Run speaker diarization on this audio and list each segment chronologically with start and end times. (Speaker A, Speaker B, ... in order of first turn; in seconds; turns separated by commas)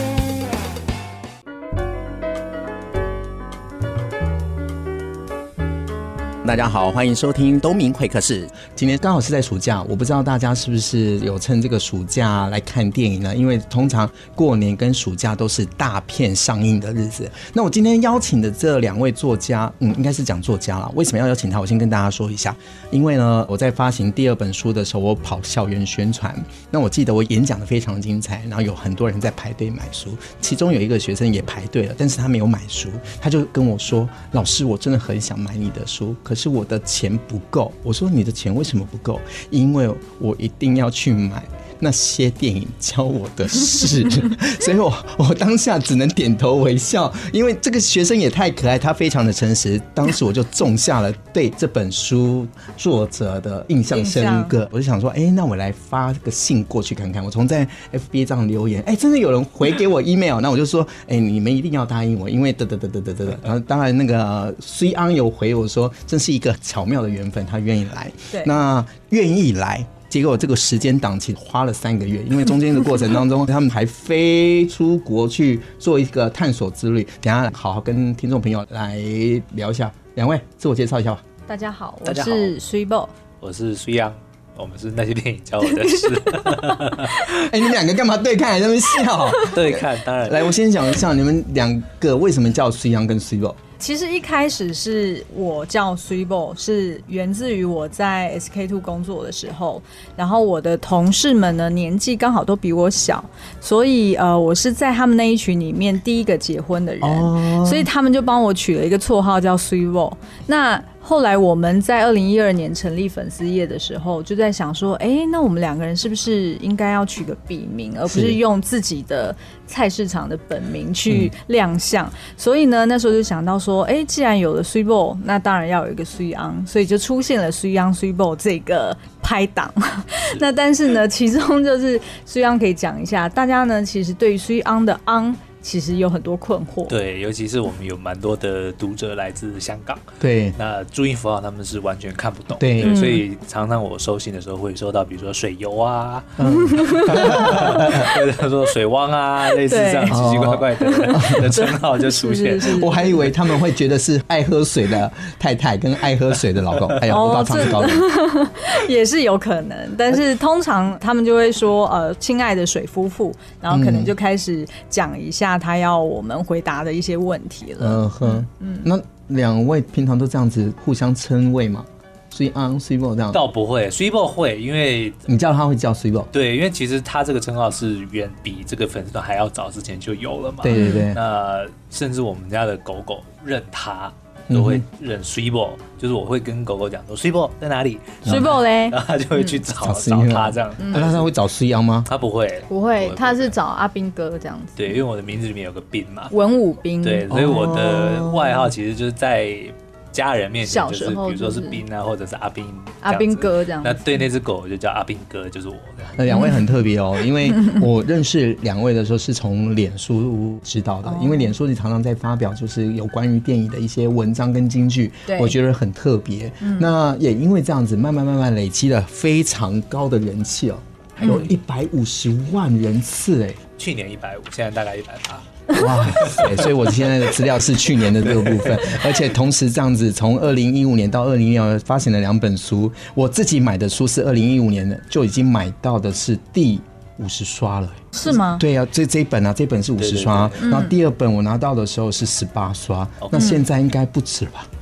Speaker A: 6.4-81.2, Speaker B: 53.9-54.5, Speaker B: 81.5-83.1, Speaker C: 82.0-82.5, Speaker C: 83.4-87.3, Speaker B: 85.7-87.1, Speaker A: 87.4-93.6, Speaker C: 89.5-90.5, Speaker B: 93.8-136.9, Speaker A: 107.0-107.9, Speaker A: 118.1-118.4, Speaker C: 136.9-152.9, Speaker A: 140.2-140.6, Speaker A: 142.6-143.0, Speaker B: 142.8-143.2, Speaker A: 146.4-148.1, Speaker B: 146.5-148.1, Speaker B: 149.6-150.2, Speaker A: 150.1-151.6, Speaker B: 150.8-153.2, Speaker A: 152.7-158.1, Speaker B: 157.1-168.9, Speaker A: 163.7-164.1, Speaker A: 167.8-173.4, Speaker C: 173.3-175.2, Speaker A: 175.3-176.3, Speaker C: 176.3-191.3, Speaker A: 180.6-181.2, Speaker B: 180.7-181.1, Speaker A: 184.5-184.8, Speaker A: 188.2-188.5, Speaker B: 188.2-189.6, Speaker A: 189.8-192.1, Speaker B: 190.8-191.1, Speaker C: 192.1-193.5, Speaker B: 192.7-195.0, Speaker C: 194.8-196.3, Speaker B: 196.3-198.7, Speaker C: 197.0-206.2, Speaker A: 197.3-197.8, Speaker B: 200.7-201.8, Speaker B: 203.0-204.2, Speaker A: 206.1-223.6, Speaker B: 206.3-206.6, Speaker B: 211.0-211.5, Speaker B: 215.3-215.6, Speaker B: 216.6-216.9, Speaker B: 221.2-221.5, Speaker C: 223.8-225.5, Speaker A: 225.7-244.7, Speaker C: 226.1-226.7, Speaker C: 228.2-229.0, Speaker B: 238.1-238.6, Speaker C: 240.0-240.7, Speaker B: 240.6-240.9, Speaker C: 243.2-243.6